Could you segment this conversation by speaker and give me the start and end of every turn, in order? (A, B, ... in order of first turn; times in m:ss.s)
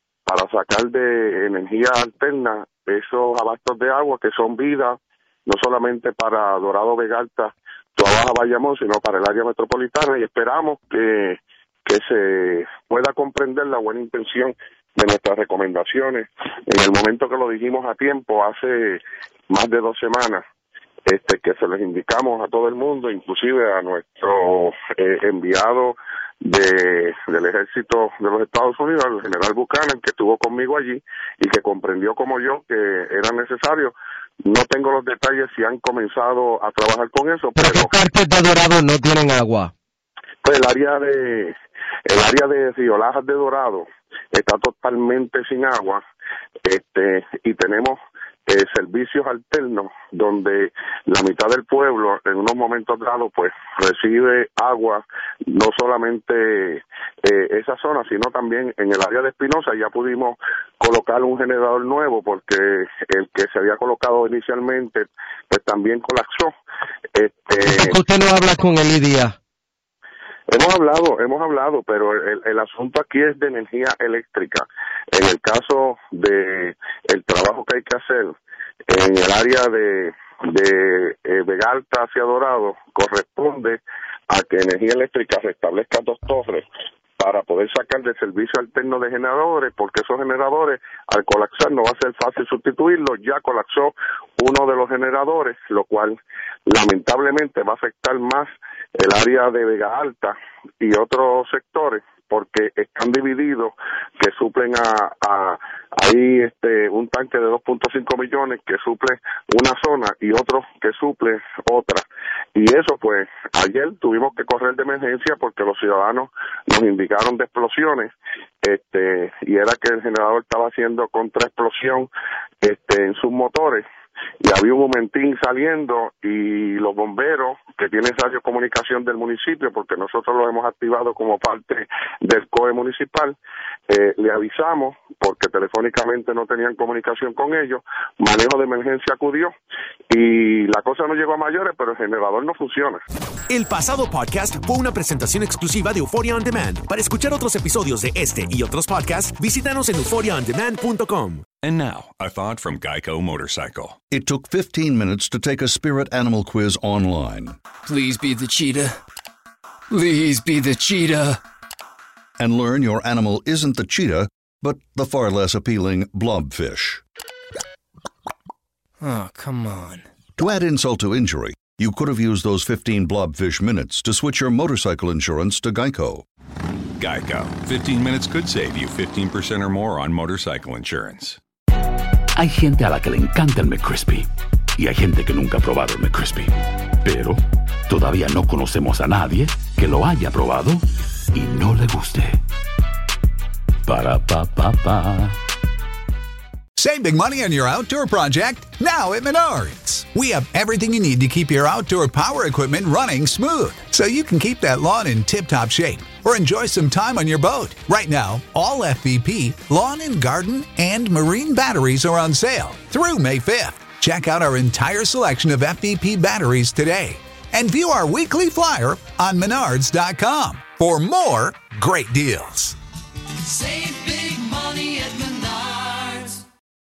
0:00.2-0:20.4 A
0:21.0-0:38.0 A
0:37.6-0:39.7 B
0:40.4-0:41.5 A
0:42.0-0:46.0 A
0:46.6-1:06.5 A
1:07.1-1:08.0 A
1:07.6-1:09.4 B
1:10.5-1:18.3 A
1:18.9-1:26.7 A
1:27.2-2:02.1 A
2:02.6-2:03.8 A
2:04.4-2:13.4 A
2:13.9-2:19.5 A
2:20.1-2:23.0 A
2:23.5-2:31.4 C
2:31.6-2:34.0 D
2:34.1-2:37.6 E
2:37.8-2:39.0 F
2:39.9-2:41.4 F
2:42.4-2:47.0 E
2:49.0-2:50.0 F
2:50.4-2:56.2 E
2:57.0-3:01.4 D
3:02.4-3:06.5 G
3:07.0-3:12.4 G
3:13.8-3:15.4 G
3:16.8-3:42.7 H
3:43.6-3:46.4 F